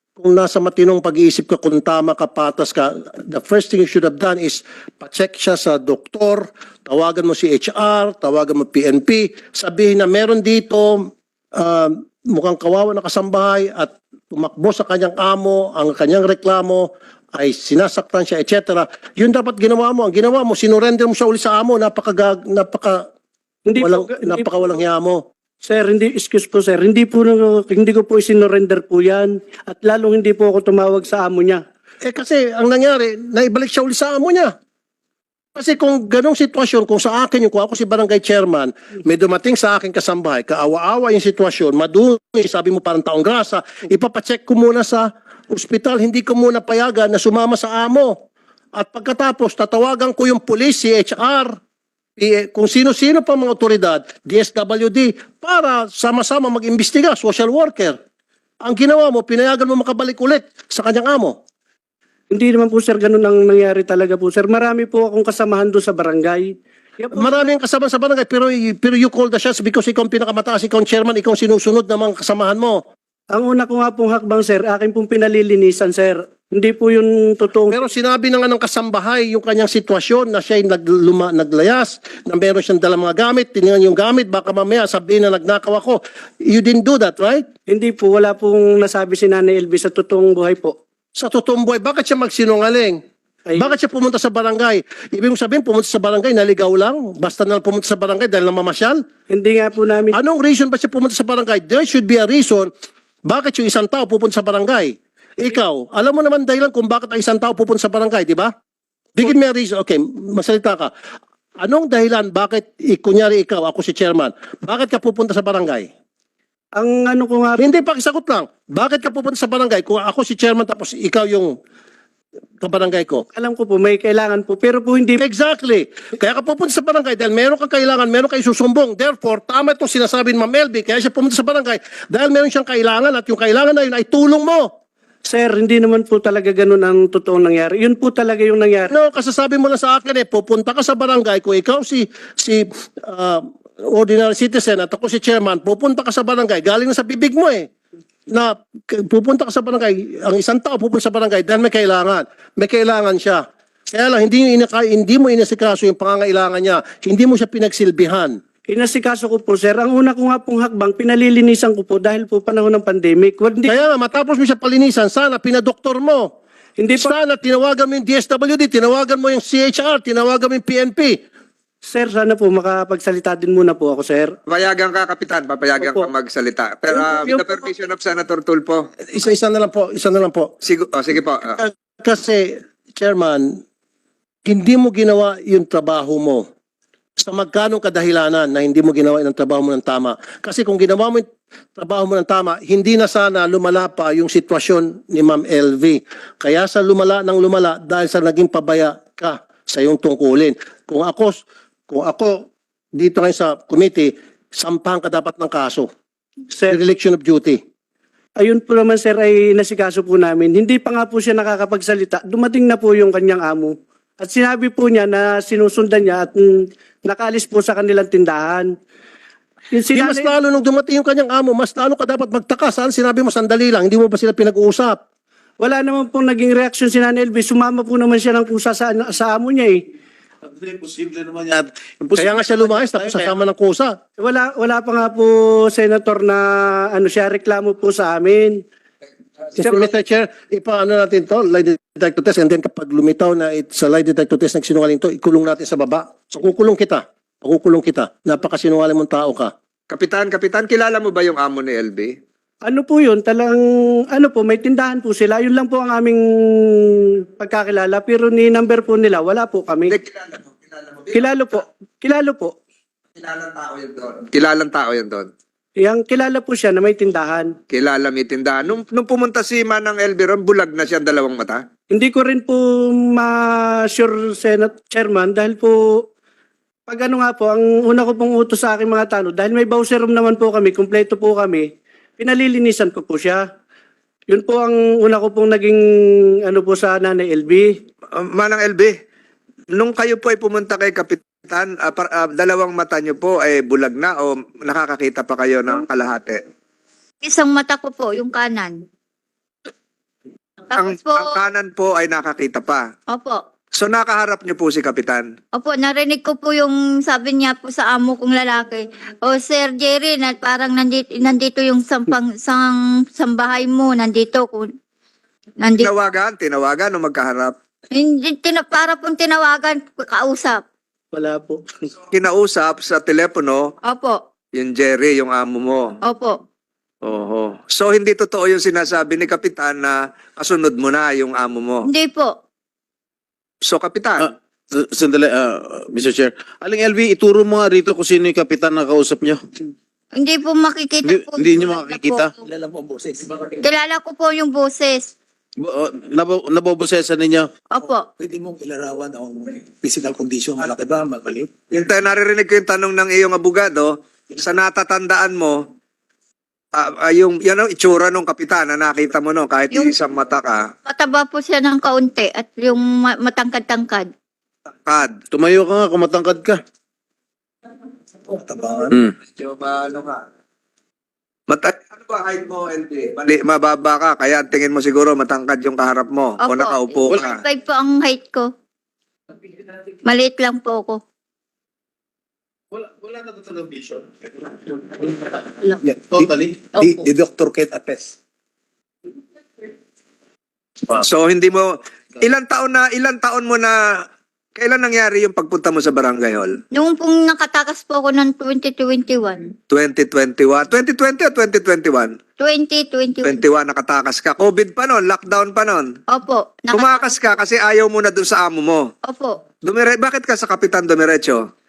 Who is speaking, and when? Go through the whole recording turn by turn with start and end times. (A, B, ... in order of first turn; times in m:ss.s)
0:00.2-0:23.1 A
0:23.7-0:24.5 B
0:23.8-0:25.2 A
0:25.6-0:31.6 B
0:32.0-0:34.6 A
0:35.6-0:48.2 A
0:48.7-0:51.6 A
0:52.2-0:58.0 A
0:58.6-1:01.4 A
1:02.3-1:07.5 B
1:07.1-1:12.8 A
1:13.3-1:17.8 B
1:17.7-1:27.5 A
1:27.7-1:30.8 B
1:31.2-1:33.0 A
1:33.5-1:33.7 B
1:33.6-1:39.0 A
1:39.3-1:40.2 B
1:40.1-1:42.7 A
1:43.2-1:48.5 A
1:49.2-1:50.9 A
1:51.6-1:55.9 A
1:56.8-1:57.7 B
1:57.6-2:01.6 A
2:02.6-2:03.2 A
2:03.3-2:05.2 B
2:05.2-2:14.7 A
2:15.2-2:18.9 B
2:18.9-2:27.7 A
2:28.3-2:38.4 A
2:38.7-2:43.7 B
2:43.7-2:46.3 A
2:46.8-2:47.1 B
2:47.0-2:51.2 A
2:51.9-2:54.4 B
2:54.5-2:58.9 C
2:55.8-2:56.1 B
2:56.9-2:57.4 B
2:59.1-3:00.5 A
3:00.6-3:01.6 C
3:01.6-3:03.6 A
3:04.4-3:06.5 A
3:07.2-3:25.9 A
3:26.7-3:27.6 A
3:28.4-3:38.7 B
3:39.7-3:40.3 B
3:39.9-3:45.0 A
3:45.6-3:49.8 B
3:50.5-3:53.3 D
3:52.2-3:54.0 A
3:54.2-3:58.6 B
3:59.6-4:09.5 A
4:09.9-4:12.1 C
4:12.7-4:20.0 B
4:19.9-4:21.3 C
4:21.1-4:22.6 B
4:23.2-4:25.3 C
4:25.8-4:27.5 B
4:27.7-4:31.6 C
4:31.9-4:36.0 B
4:36.9-4:41.7 B
4:42.2-4:43.4 B
4:44.3-4:45.8 B
4:46.4-4:47.7 B
4:48.1-4:48.9 C
4:49.7-4:56.4 C
4:57.2-4:58.8 E
5:00.7-5:01.3 E
5:00.8-5:02.9 C
5:03.1-5:03.4 E
5:03.8-5:05.3 C
5:05.5-5:14.7 E
5:15.6-5:15.9 E
5:15.8-5:17.6 C
5:17.9-5:20.6 E
5:21.1-5:21.6 B
5:22.1-5:23.7 C
5:23.9-5:24.2 E
5:24.6-5:26.0 C
5:26.0-5:26.4 E
5:27.0-5:31.9 C
5:31.9-5:32.4 E
5:33.7-5:34.3 C
5:34.2-5:39.4 D
5:40.2-5:42.2 E
5:41.0-5:42.3 D
5:42.4-5:43.5 F
5:43.6-5:45.1 E
5:45.6-5:47.5 D
5:47.8-5:48.0 E
5:48.2-5:51.5 F
5:51.7-5:55.6 C
5:56.7-6:00.7 C
6:00.8-6:04.1 E
6:04.9-6:05.1 C
6:05.3-6:06.6 D
6:08.4-6:09.0 F
6:09.4-6:10.2 C
6:11.5-6:17.4 C
6:16.4-6:18.5 E
6:20.0-6:21.0 E
6:22.7-6:24.0 D
6:25.8-6:28.1 F
6:26.1-6:26.4 D
6:31.0-6:34.0 C
6:34.6-6:36.6 C
6:36.7-6:39.5 E
6:39.7-6:42.2 C
6:42.4-6:43.4 E
6:43.2-6:45.9 C
6:46.1-6:47.1 E
6:46.7-6:48.9 C
6:49.1-6:49.4 E
6:49.6-6:51.4 C